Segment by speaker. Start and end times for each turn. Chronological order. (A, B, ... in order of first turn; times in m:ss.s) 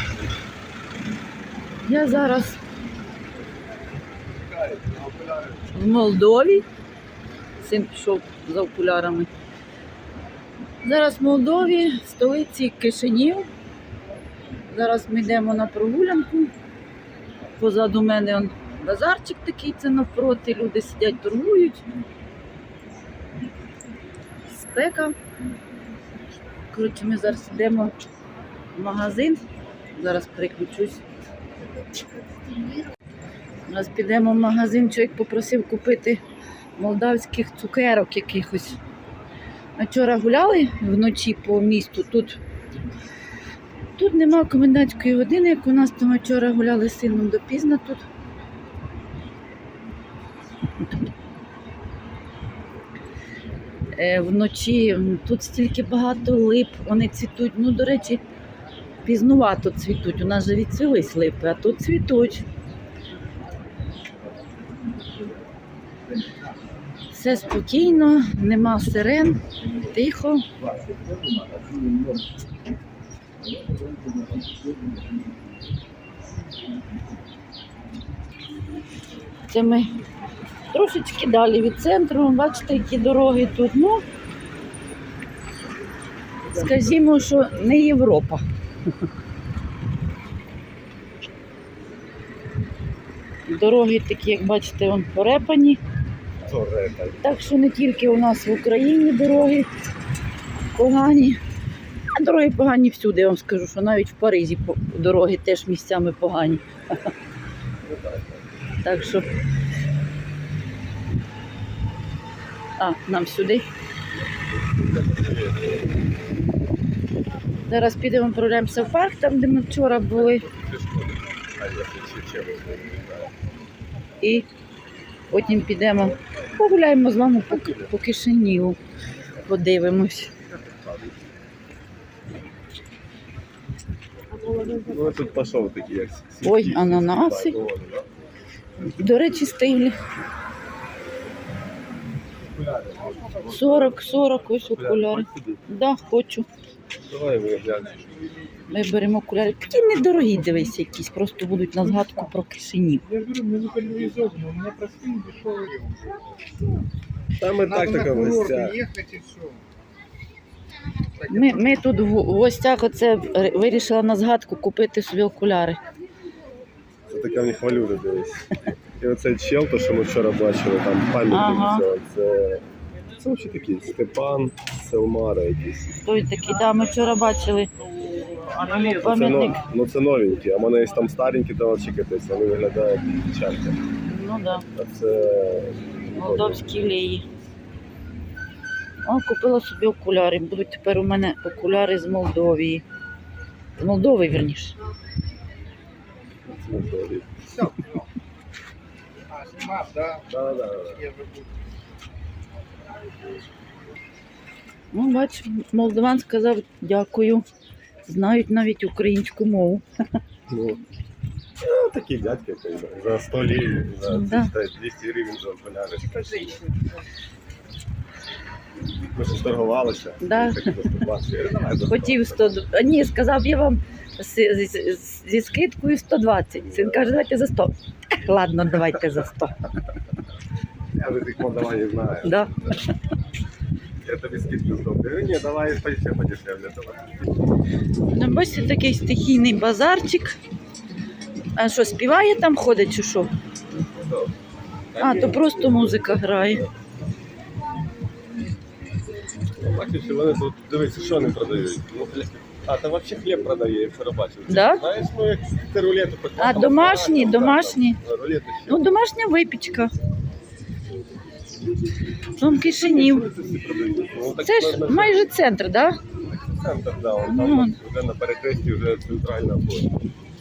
0:01.8-0:02.6 A
0:04.3-0:05.7 B
0:05.7-0:06.7 A
0:07.6-0:09.3 A
0:10.8-0:13.5 A
0:14.7-0:16.5 A
0:17.6-0:21.8 A
0:24.6-0:25.2 A
0:26.7-0:28.0 A
0:28.8-0:29.4 A
0:30.0-0:31.0 A
0:33.7-0:36.2 A
0:36.8-0:38.8 A
0:39.8-0:42.4 A
0:44.0-0:48.1 A
0:54.0-0:58.2 A
0:59.0-1:02.5 A
1:07.1-1:10.5 A
1:19.5-1:19.9 A
1:20.7-1:24.0 A
1:26.5-1:28.4 A
1:26.6-1:27.5 B
1:33.5-1:35.8 A
1:36.4-1:37.4 B
1:37.2-1:39.7 A
1:40.7-1:41.4 A
1:42.1-1:46.6 A
1:47.8-1:48.5 B
1:48.8-1:49.3 A
1:52.8-1:53.7 A
1:54.5-1:55.8 B
1:57.7-2:00.4 A
2:00.1-2:03.3 B
2:04.2-2:04.5 A
2:05.3-2:08.8 A
2:07.5-2:07.9 B
2:09.4-2:10.3 A
2:10.5-2:11.2 B
2:14.6-2:18.1 B
2:16.4-2:17.6 A
2:18.8-2:20.0 A
2:22.5-2:24.0 B
2:23.5-2:26.5 A
2:24.6-2:25.6 B
2:27.1-2:28.0 B
2:28.7-2:33.0 A
2:33.1-2:36.2 C
2:37.4-2:38.8 B
2:37.6-2:39.6 C
2:41.2-2:41.6 C
2:41.3-2:45.8 A
2:47.1-2:52.7 B
2:51.3-2:51.9 A
2:53.2-2:56.0 B
2:56.0-2:57.7 A
2:58.5-2:59.6 A
2:59.0-3:03.8 B
3:04.0-3:04.6 A
3:04.8-3:06.9 B
3:06.2-3:07.2 A
3:09.0-3:12.8 A
3:13.8-3:14.8 A
3:16.5-3:17.5 B
3:17.5-3:18.1 C
3:19.3-3:21.5 C
3:20.3-3:21.0 B
3:24.9-3:27.5 A
3:28.1-3:29.8 A
3:30.5-3:30.8 B
3:31.6-3:36.6 B
3:34.1-3:34.5 A
3:36.2-3:36.9 C
3:39.1-3:42.5 B
3:40.2-3:40.9 A
3:41.8-3:49.6 A
3:46.6-3:47.1 B
3:51.0-3:52.8 B
3:52.2-3:52.5 A
3:54.0-3:57.2 B
3:58.1-4:00.4 A
4:01.6-4:03.3 A
4:04.0-4:04.3 B
4:04.9-4:06.7 B
4:05.0-4:06.7 A
4:09.6-4:18.8 B
4:14.5-4:14.8 A
4:16.4-4:18.0 A
4:18.7-4:19.9 A
4:22.4-4:23.3 A
4:22.4-4:25.3 B
4:24.4-4:26.0 A
4:26.2-4:30.0 B
4:27.2-4:27.8 A